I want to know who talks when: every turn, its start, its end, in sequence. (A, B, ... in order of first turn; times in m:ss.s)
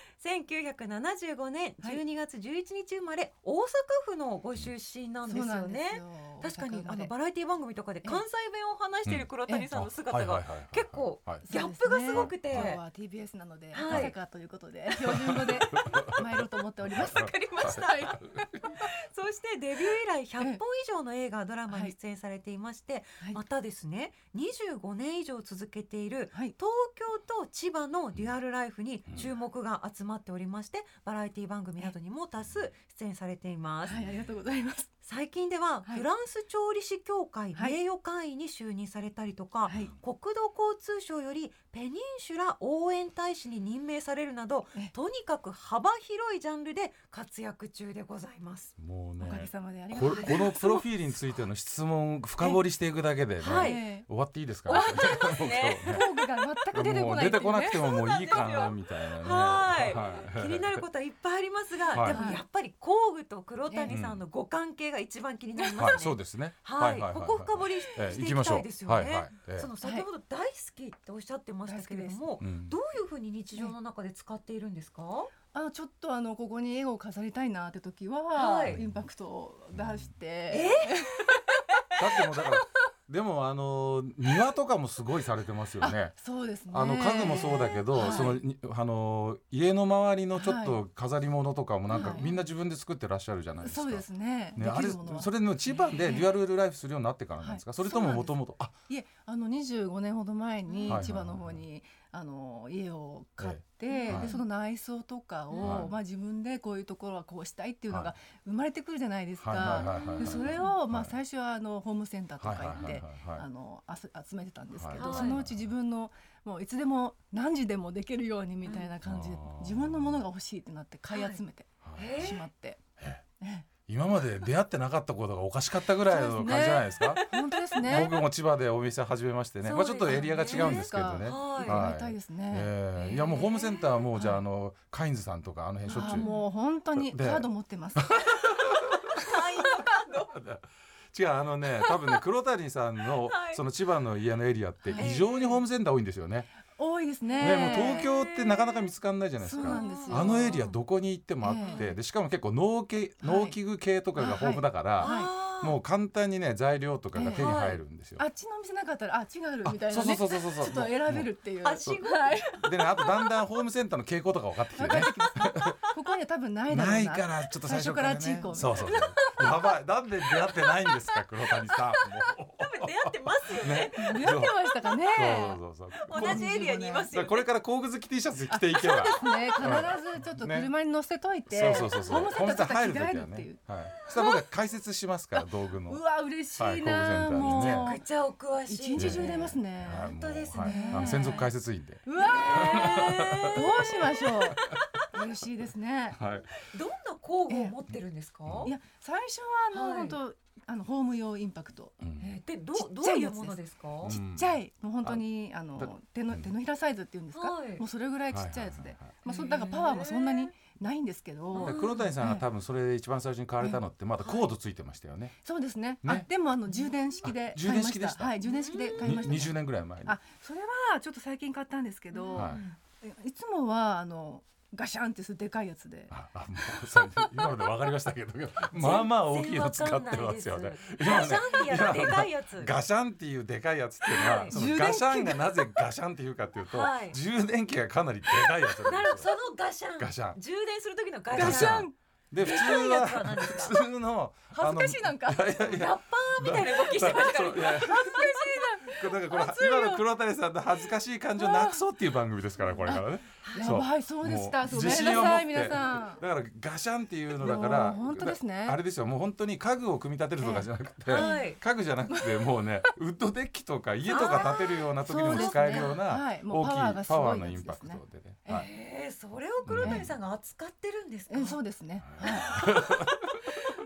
0:00.2-0:12.8 A
0:05.2-0:07.1 B
0:09.1-0:11.4 C
0:11.4-0:18.9 B
0:12.2-0:12.8 C
0:13.7-0:14.1 A
0:13.8-0:14.2 C
0:15.1-0:16.3 C
0:16.9-0:18.3 C
0:17.0-0:34.0 A
0:21.7-0:21.9 B
0:33.9-0:34.9 B
0:35.0-0:48.7 A
0:39.7-0:40.0 B
0:48.8-0:56.0 C
0:49.2-0:51.2 B
0:53.4-0:53.8 A
0:53.4-0:54.1 B
0:54.7-0:56.2 A
0:54.7-0:55.3 B
0:55.8-0:57.8 B
0:56.7-1:00.9 C
0:57.7-1:15.3 A
1:01.9-1:02.3 C
1:02.1-1:02.4 B
1:03.7-1:04.0 B
1:03.9-1:04.2 C
1:05.8-1:09.7 C
1:09.8-1:10.1 B
1:11.7-1:12.3 B
1:12.4-1:12.8 C
1:15.5-1:21.4 B
1:18.4-1:18.8 A
1:18.6-1:19.0 C
1:20.5-1:21.4 A
1:22.0-1:26.2 C
1:25.8-1:28.4 B
1:26.7-1:38.8 C
1:27.4-1:28.4 A
1:30.4-1:30.8 B
1:31.9-1:32.2 A
1:31.9-1:32.3 B
1:33.6-1:35.3 B
1:35.8-1:36.2 A
1:37.4-2:02.8 B
1:40.7-1:41.0 A
1:40.9-1:41.6 C
1:43.4-1:44.3 C
1:43.9-1:44.4 A
1:45.5-1:45.9 A
1:45.6-1:46.0 C
1:49.4-1:51.2 C
1:49.6-1:50.8 A
1:52.4-1:53.4 C
1:54.8-1:55.7 C
1:55.0-1:55.4 A
1:58.6-1:58.9 A
1:59.0-2:00.2 C
2:01.1-2:01.4 A
2:01.8-2:02.4 C
2:02.0-2:02.4 A
2:03.4-2:03.7 B
2:03.9-2:07.2 C
2:06.1-2:08.1 B
2:07.0-2:08.2 A
2:07.8-2:16.3 C
2:09.6-2:12.7 B
2:09.7-2:11.8 A
2:13.0-2:14.0 A
2:14.2-2:14.4 B
2:15.9-2:16.4 A
2:15.9-2:18.2 B
2:17.0-2:26.5 C
2:18.6-2:20.4 A
2:19.2-2:19.4 B
2:21.8-2:22.2 A
2:23.3-2:23.6 A
2:24.9-2:25.2 B
2:25.0-2:25.6 A
2:26.8-2:28.1 B
2:27.3-2:28.9 A
2:27.4-2:38.2 C
2:29.4-2:30.6 B
2:29.6-2:30.8 A
2:31.4-2:31.9 B
2:31.6-2:31.8 A
2:33.2-2:33.6 B
2:34.2-2:35.4 B
2:35.0-2:35.8 A
2:37.2-2:37.6 B
2:37.4-2:37.8 A
2:38.2-2:42.6 B
2:39.6-2:41.3 C
2:41.6-2:42.6 A
2:42.5-2:45.8 C
2:44.8-2:49.5 B
2:46.7-2:56.5 C
2:50.3-2:50.8 B
2:52.6-2:55.4 A
2:54.0-2:55.6 B
2:56.0-2:57.5 A
2:56.1-2:57.1 B
2:57.1-3:00.7 C
2:58.5-3:03.6 B
2:59.1-2:59.9 A
3:01.5-3:06.0 C
3:01.7-3:02.4 A
3:04.0-3:04.4 A
3:05.4-3:08.0 B
3:06.6-3:07.9 C
3:07.4-3:11.5 A
3:08.7-3:11.4 B
3:09.0-3:14.7 C
3:12.1-3:16.2 B
3:12.2-3:15.0 A
3:16.1-3:16.6 C
3:16.5-3:18.7 A
3:17.5-3:17.7 B
3:18.5-3:18.7 C
3:18.6-3:22.0 B
3:19.7-3:20.2 A
3:22.0-3:22.4 C
3:22.2-3:24.2 A
3:22.8-3:32.4 B
3:24.0-3:25.2 C
3:25.8-3:26.5 C
3:27.3-3:27.8 A
3:28.3-3:29.2 C
3:29.3-3:30.5 A
3:31.5-3:32.1 A
3:31.6-3:35.4 C
3:34.2-3:34.5 A
3:35.4-3:47.6 B
3:37.2-3:38.4 C
3:38.4-3:39.2 A
3:39.0-3:40.2 C
3:42.1-3:42.8 A
3:42.4-3:42.6 C
3:46.1-3:59.3 C
3:48.8-3:52.7 A
3:54.1-3:54.6 A
3:54.5-3:55.6 B
3:56.7-3:57.2 A
3:58.6-4:01.9 A
4:00.0-4:00.4 C
4:01.3-4:02.0 B
4:01.4-4:08.3 C
4:02.4-4:03.8 A
4:04.5-4:05.6 B
4:05.6-4:08.7 A
4:07.7-4:10.0 B
4:09.0-4:28.7 C
4:11.4-4:11.9 B
4:12.8-4:16.2 B
4:13.4-4:13.8 A
4:17.4-4:18.8 B
4:20.4-4:21.5 B
4:21.1-4:21.6 A
4:22.1-4:22.4 B
4:24.1-4:26.0 A
4:24.1-4:28.7 B
4:28.5-4:31.6 A
4:29.6-4:30.2 C
4:29.8-4:30.1 B
4:31.3-4:33.1 B
4:32.0-4:33.2 C
4:32.2-4:33.3 A